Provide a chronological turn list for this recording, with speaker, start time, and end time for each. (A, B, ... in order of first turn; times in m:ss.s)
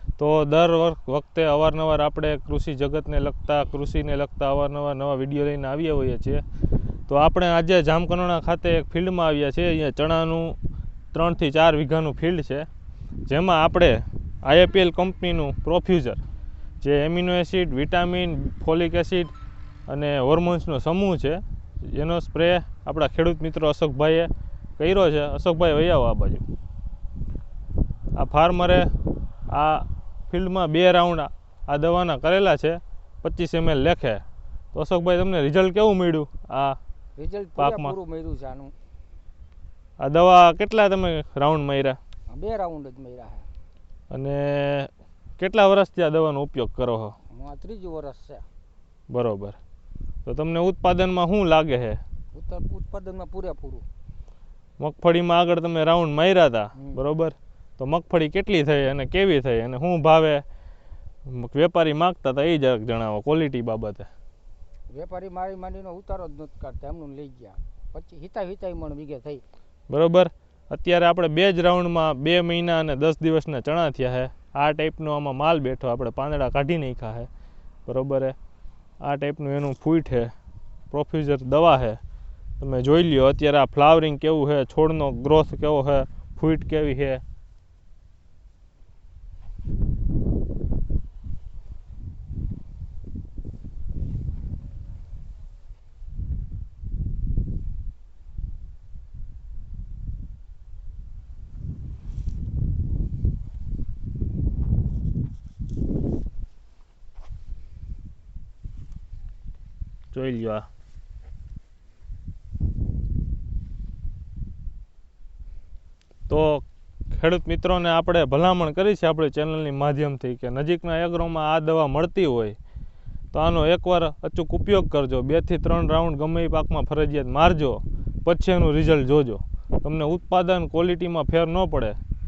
0:00.2-0:06.4 A
0:07.1-0:10.6 A
0:11.1-0:12.7 A
0:13.3-0:16.2 A
0:16.8-0:19.3 A
0:19.9-0:26.4 A
0:28.2-0:28.9 A
0:29.5-0:36.8 A
0:37.2-0:38.7 B
0:37.6-0:38.0 A
0:40.0-0:42.0 A
0:42.3-0:43.5 B
0:44.1-0:47.2 A
0:47.3-0:48.4 B
0:49.1-0:49.6 A
0:50.2-0:52.0 A
0:52.3-0:53.8 B
0:54.8-1:00.4 A
1:01.3-1:04.1 A
1:04.9-1:09.4 B
1:09.9-1:17.3 A
1:17.9-1:18.4 A
1:19.0-1:20.3 A
1:20.9-1:22.0 A
1:22.6-1:27.2 A
1:50.1-1:50.7 A
1:56.3-2:02.6 A
2:03.3-2:12.0 A